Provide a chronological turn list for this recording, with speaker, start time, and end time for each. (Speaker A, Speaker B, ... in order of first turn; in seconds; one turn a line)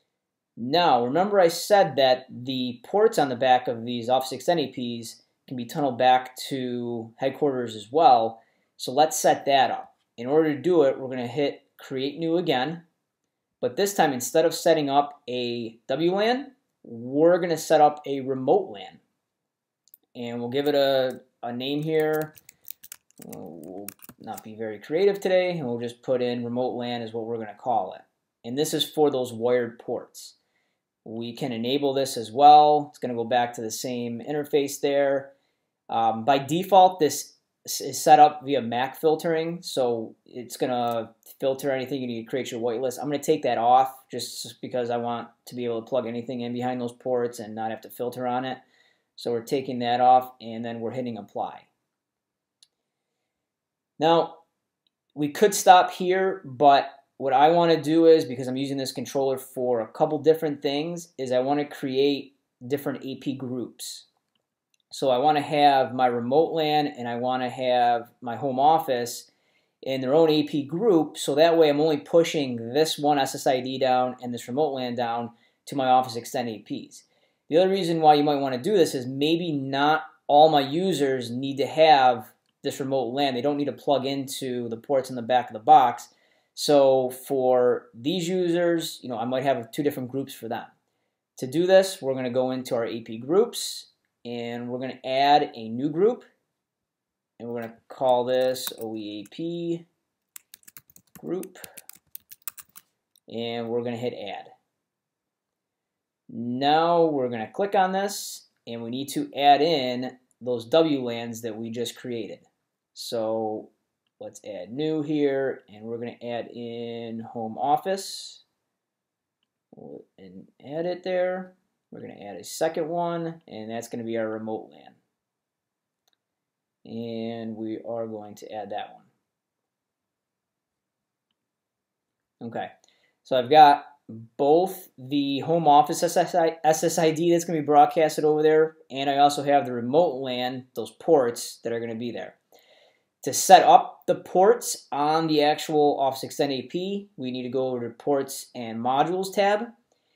Speaker A: 0.6-12.8
Speaker A: 13.6-19.0
Speaker A: 20.1-22.3
Speaker A: 23.2-30.4
Speaker A: 31.0-35.3
Speaker A: 35.9-48.6
Speaker A: 49.2-51.7
Speaker A: 54.0-54.4
Speaker A: 55.1-64.1
Speaker A: 64.9-69.3
Speaker A: 69.8-90.7
Speaker A: 91.4-96.2
Speaker A: 97.4-99.8
Speaker A: 101.2-101.6
Speaker A: 103.3-104.5
Speaker A: 106.3-118.4
Speaker A: 119.7-125.0
Speaker A: 126.8-129.1
Speaker A: 132.4-132.7
Speaker A: 133.2-142.4
Speaker A: 143.2-149.7